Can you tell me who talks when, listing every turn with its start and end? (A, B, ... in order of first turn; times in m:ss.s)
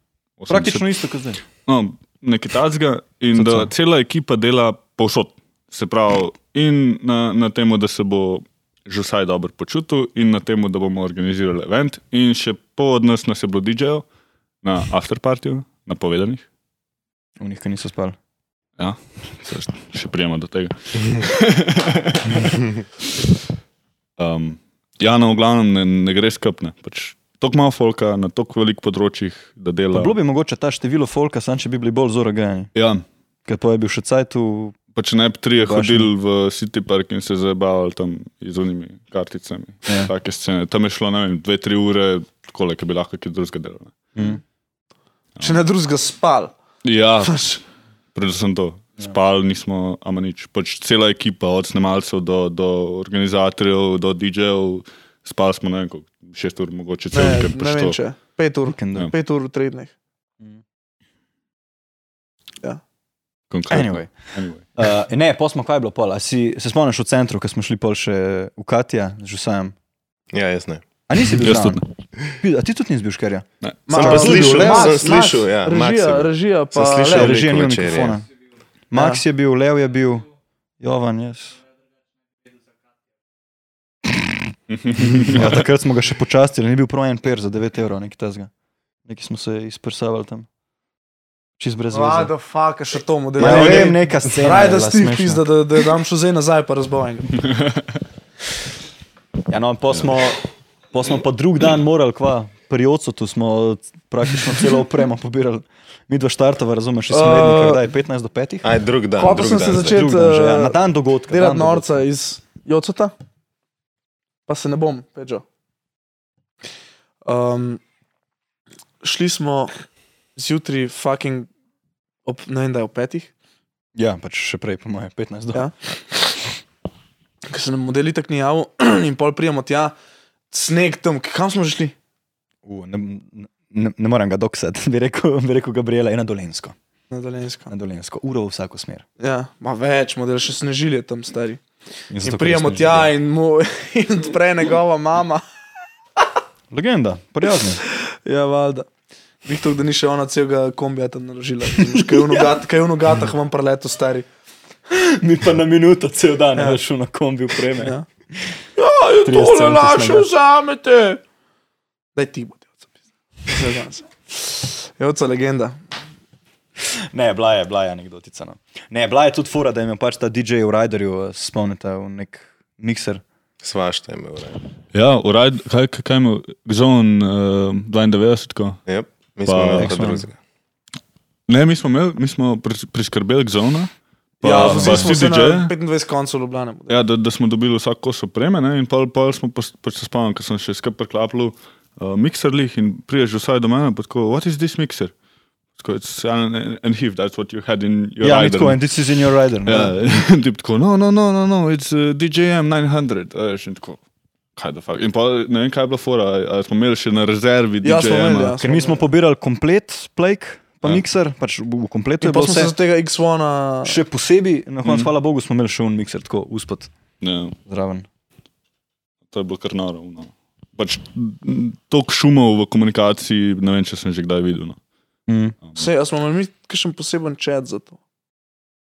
0:00.4-0:00.9 A
0:00.5-0:01.4 B
0:01.6-0:14.0 A
0:03.3-0:03.7 B
0:14.6-0:16.4 A
0:17.4-0:18.2 B
0:18.8-0:22.6 A
0:24.2-0:30.2 A
0:29.9-0:32.7 B
0:32.8-0:33.0 A
0:33.5-0:34.8 B
0:35.0-0:44.0 A
0:35.6-0:36.1 B
0:39.9-0:40.1 B
0:44.2-0:44.4 B
0:45.4-0:45.6 A
0:45.4-0:46.5 C
0:46.8-0:47.5 A
0:47.2-0:47.6 C
0:48.1-0:58.0 A
0:57.1-0:59.9 C
0:58.8-0:59.1 B
1:03.5-1:04.8 A
1:03.7-1:04.1 B
1:04.8-1:09.8 B
1:10.3-1:10.9 D
1:11.1-1:11.8 B
1:11.3-1:11.8 A
1:12.4-1:15.0 B
1:13.9-1:17.4 C
1:13.9-1:18.2 D
1:17.1-1:18.3 B
1:18.9-1:20.3 B
1:18.9-1:19.2 C
1:20.8-1:21.6 B
1:24.0-1:24.4 B
1:24.8-1:25.5 A
1:25.0-1:28.5 B
1:29.0-1:30.5 B
1:31.6-1:32.3 B
1:31.9-1:37.4 C
1:33.4-1:35.5 B
1:39.5-1:48.7 B
1:47.1-1:47.8 C
1:48.6-1:50.0 D
1:49.2-1:53.1 C
1:49.8-1:52.0 B
1:54.5-1:55.4 C
1:57.2-1:57.8 C
1:59.0-1:59.7 C
2:00.4-2:01.5 C
2:02.3-2:03.3 C
2:04.0-2:05.7 B
2:05.5-2:06.3 C
2:07.5-2:10.0 C
2:10.5-2:12.0 C
2:12.6-2:16.8 B
2:17.1-2:17.7 C
2:17.7-2:19.0 B
2:19.2-2:21.6 C
2:22.1-2:23.1 B
2:22.2-2:25.4 C
2:26.7-2:27.8 B
2:27.9-2:28.9 C
2:29.4-2:34.3 C
2:31.8-2:32.4 B
2:34.9-2:38.0 B
2:37.8-2:38.0 C
2:38.8-2:41.2 C
2:39.2-2:40.3 B
2:42.2-2:42.9 C
2:43.4-2:45.8 C
2:46.8-2:53.2 B
2:53.6-2:54.6 D
2:54.9-2:58.8 A
2:58.9-3:00.4 D
2:59.5-3:00.0 A
2:59.8-3:00.3 B
3:01.5-3:05.7 A
3:04.4-3:07.0 C
3:04.5-3:05.1 B
3:06.9-3:15.1 A
3:15.8-3:18.8 A
3:18.2-3:20.0 B
3:19.6-3:24.0 A
3:24.6-3:28.6 A
3:27.8-3:29.0 C
3:28.6-3:32.7 B
3:32.2-3:34.0 C
3:33.8-3:36.9 B
3:34.8-3:35.1 A
3:37.2-3:37.6 A
3:37.7-3:38.1 B
3:39.3-3:44.8 A
3:45.3-3:45.6 B
3:45.8-3:48.0 C